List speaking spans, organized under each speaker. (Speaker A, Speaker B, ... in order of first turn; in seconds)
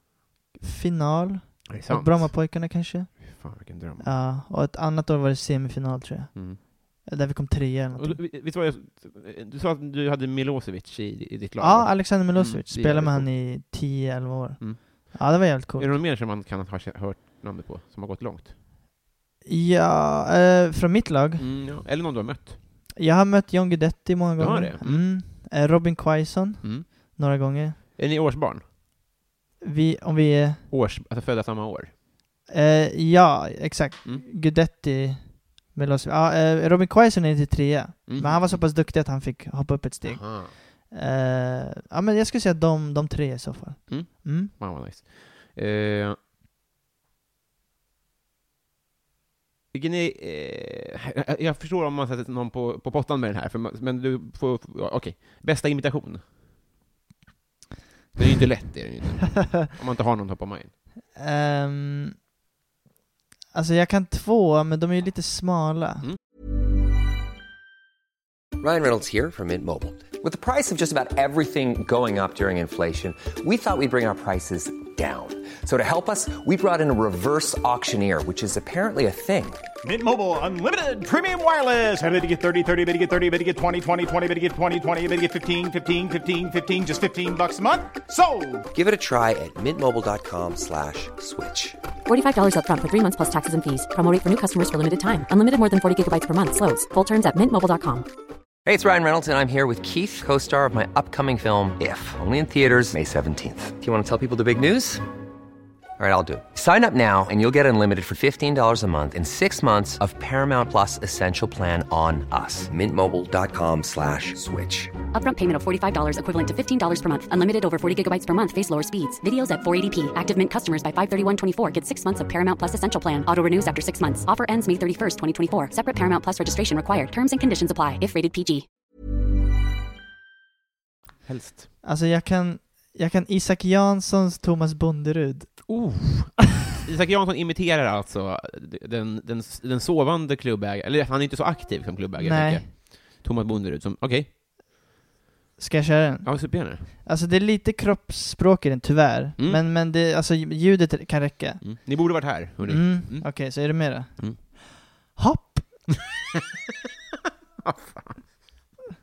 Speaker A: 0.6-8.2, 11.6-16.0, 19.4-21.7, 23.0-27.8, 29.6-30.6, 32.5-44.5, 61.1-62.2, 63.5-66.1, 131.8-135.9, 142.2-142.7, 145.6-154.6, 155.2-156.0
Speaker B: 1.7-2.5, 3.1-4.1, 6.3-6.6, 8.0-13.3, 14.6-18.5, 21.4-22.6, 24.4-25.1, 26.6-26.9, 28.0-28.7, 30.7-31.9, 38.1-38.6, 40.0-40.5, 43.9-46.2, 49.7-56.3, 58.2-60.7, 131.3-131.7, 135.7-144.3, 146.2-146.9, 149.4-149.6, 151.6-154.4, 157.6-158.3
Speaker C: 68.6-79.6, 88.7-91.8, 98.7-105.0, 106.0-114.9
Speaker D: 79.8-88.7
Speaker E: 92.1-98.1, 115.1-128.7